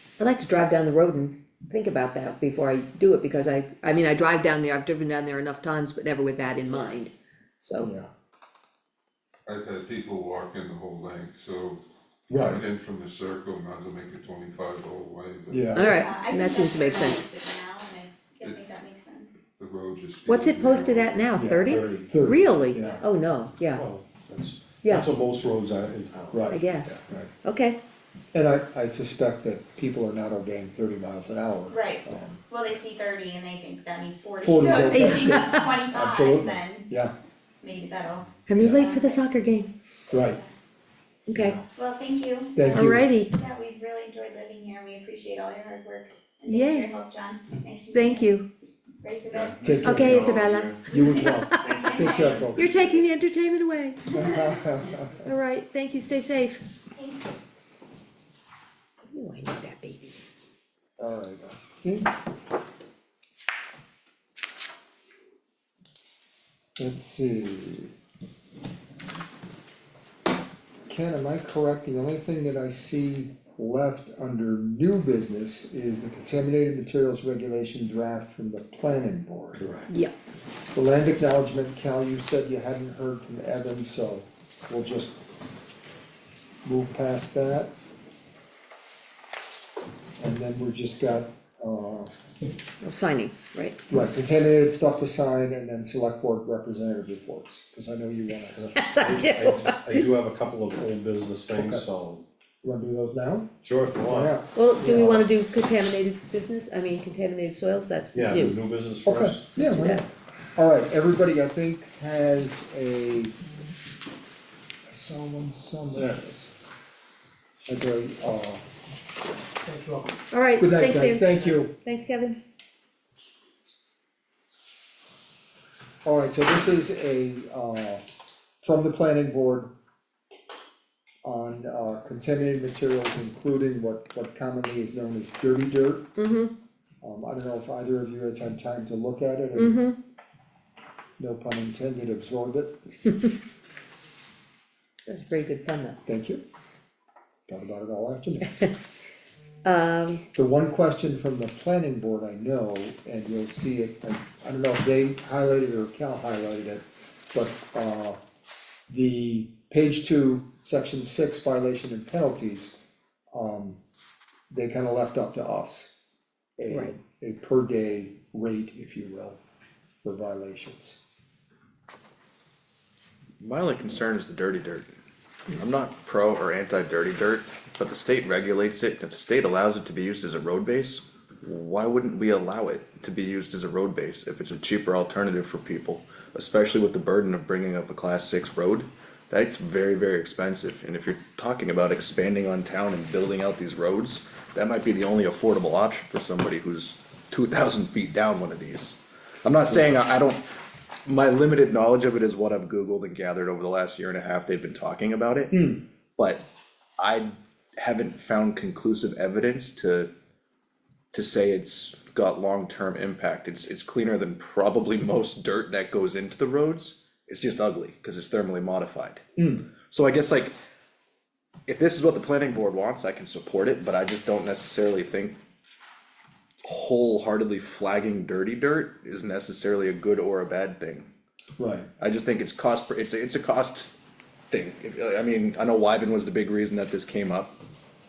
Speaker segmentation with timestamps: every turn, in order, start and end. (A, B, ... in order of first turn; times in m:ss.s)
0:00.2-0:07.9 A
0:07.8-0:08.1 B
0:09.5-0:15.8 C
0:12.3-0:12.6 B
0:15.5-0:15.9 B
0:15.7-0:19.4 D
0:15.8-0:17.3 A
0:19.5-0:21.4 C
0:20.3-0:23.9 A
0:21.3-0:23.0 B
0:21.6-0:22.2 E
0:23.7-0:27.0 E
0:24.8-0:25.1 A
0:26.3-0:27.3 B
0:26.5-0:27.8 A
0:28.3-0:32.4 B
0:31.7-0:36.9 D
0:34.4-0:37.1 B
0:34.9-0:35.8 A
0:37.6-0:39.2 D
0:38.5-0:39.7 A
0:38.6-0:38.9 B
0:40.1-0:40.4 B
0:40.1-0:40.5 D
0:41.3-0:41.6 A
0:41.3-0:41.6 B
0:41.8-0:48.3 D
0:42.6-0:43.1 B
0:42.7-0:43.3 A
0:46.4-0:47.0 A
0:47.9-0:48.5 A
0:49.0-0:53.0 D
0:49.6-0:50.3 B
0:49.8-0:51.8 A
0:49.8-0:50.5 E
0:50.9-0:52.7 B
0:52.6-0:54.1 A
0:54.1-0:55.3 B
0:55.2-0:56.6 A
0:56.9-0:57.3 D
0:59.1-1:00.2 A
1:01.0-1:02.1 B
1:06.8-1:07.9 B
1:10.9-1:19.7 B
1:19.6-1:19.9 E
1:19.9-1:20.1 A
1:20.7-1:25.2 B
1:26.6-1:27.7 B
1:30.2-1:32.1 B
1:32.8-1:33.8 A
1:33.9-1:38.6 B
1:38.6-1:42.2 E
1:38.7-1:40.0 A
1:41.5-1:41.8 B
1:42.6-1:43.5 B
1:43.6-1:45.1 E
1:44.0-1:45.2 B
1:44.6-1:48.6 A
1:48.1-1:49.5 E
1:49.0-1:53.4 B
1:49.6-1:50.0 A
1:54.9-1:56.5 B
1:57.6-1:58.6 B
1:59.7-2:00.0 B
2:00.3-2:02.4 A
2:00.6-2:01.7 B
2:06.0-2:08.0 B
2:08.6-2:09.7 B
2:11.2-2:16.1 B
2:16.2-2:16.5 A
2:17.0-2:19.8 B
2:19.6-2:20.0 A
2:21.2-2:22.8 B
2:25.1-2:26.0 A
2:26.0-2:26.4 B
2:27.5-2:28.5 B
2:29.6-2:30.2 A
2:30.4-2:38.2 B
2:38.9-2:42.8 B
2:43.3-2:43.8 B
2:44.5-2:45.9 B
2:46.6-2:49.4 B
2:46.7-2:47.0 A
2:50.0-2:51.0 B
2:53.4-2:54.9 F
2:55.6-3:20.4 F
3:21.0-3:25.6 F
3:25.5-3:25.8 B
3:26.2-3:26.4 F
3:27.0-3:30.1 F
3:31.1-3:40.6 F
3:39.4-3:39.7 B
3:41.7-3:45.4 F
3:46.6-3:51.1 F
3:51.6-3:51.9 B
3:52.0-3:53.9 F
3:54.5-3:57.6 F